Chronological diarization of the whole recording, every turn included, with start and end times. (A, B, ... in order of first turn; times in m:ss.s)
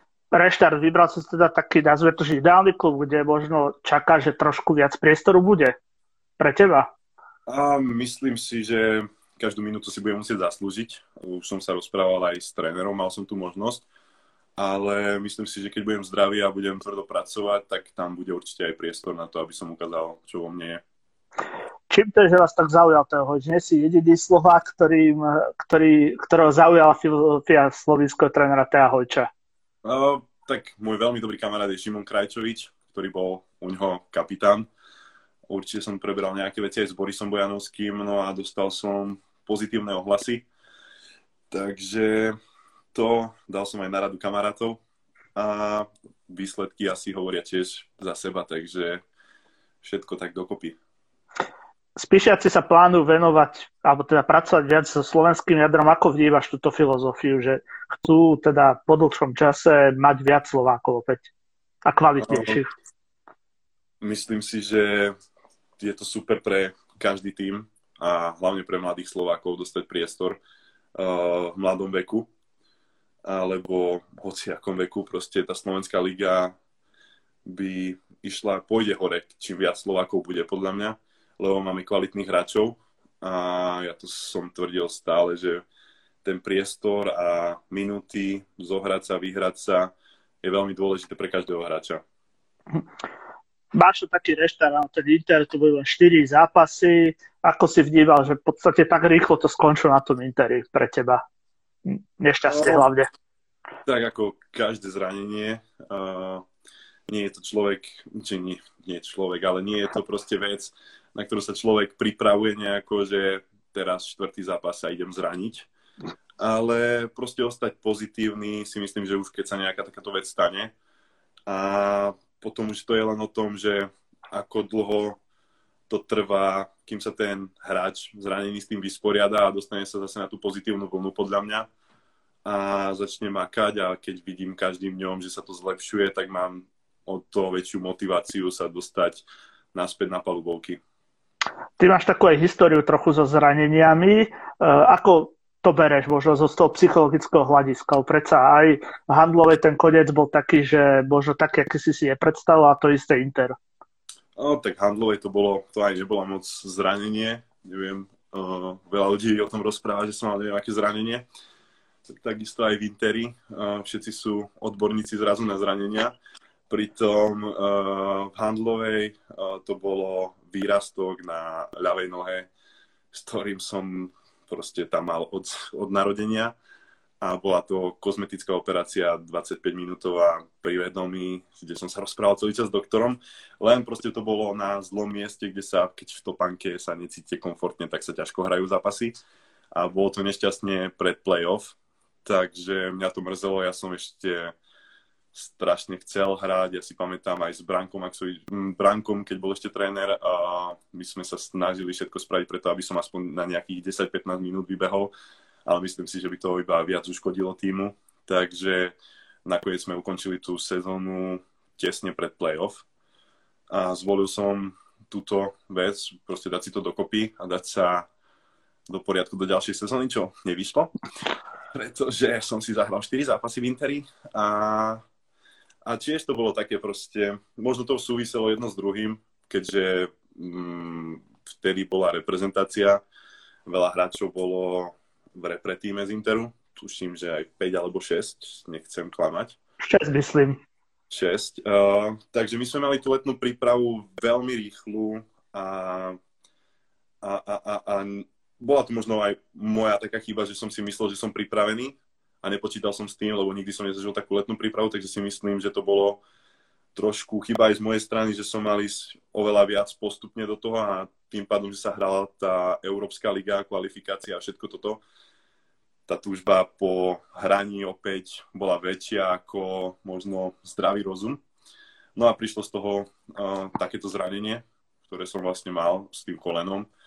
0:00.3-0:05.8 A
0:06.4-0:06.9 A
0:07.5-0:13.8 B
0:14.6-0:20.8 B
0:21.9-0:29.3 A
0:29.8-0:34.7 B
0:35.5-0:40.5 B
0:41.5-0:42.4 B
0:42.9-0:44.8 B
0:45.4-0:49.0 B
0:49.8-0:50.8 B
0:52.0-1:01.3 A
1:01.9-1:02.7 A
1:02.2-1:02.6 B
1:04.0-1:05.1 B
1:05.8-1:10.4 B
1:11.0-1:12.3 B
1:13.2-1:16.6 B
1:17.4-1:25.6 B
1:26.2-1:32.0 B
1:33.7-1:41.2 A
1:41.9-1:43.1 A
1:42.5-1:42.8 B
1:43.8-1:46.4 B
1:47.1-1:55.7 B
1:56.4-2:00.7 B
2:01.5-2:05.2 B
2:05.9-2:11.7 B
2:12.4-2:20.8 B
2:21.8-2:33.6 A
2:34.4-2:41.3 B
2:42.1-2:46.2 B
2:46.7-2:52.5 B
2:53.1-2:56.5 B
2:57.2-3:09.1 B
3:09.8-3:14.6 B
3:15.3-3:25.1 B
3:25.7-3:29.0 B
3:29.5-3:32.8 B
3:33.7-3:38.1 B
3:38.9-3:40.9 B
3:41.7-3:45.0 B
3:45.8-3:53.0 B
3:53.7-3:59.6 B
3:59.8-4:00.6 A
4:01.1-4:06.2 B
4:07.2-4:16.2 B
4:17.0-4:25.0 B
4:26.1-4:31.4 B
4:32.2-4:36.9 B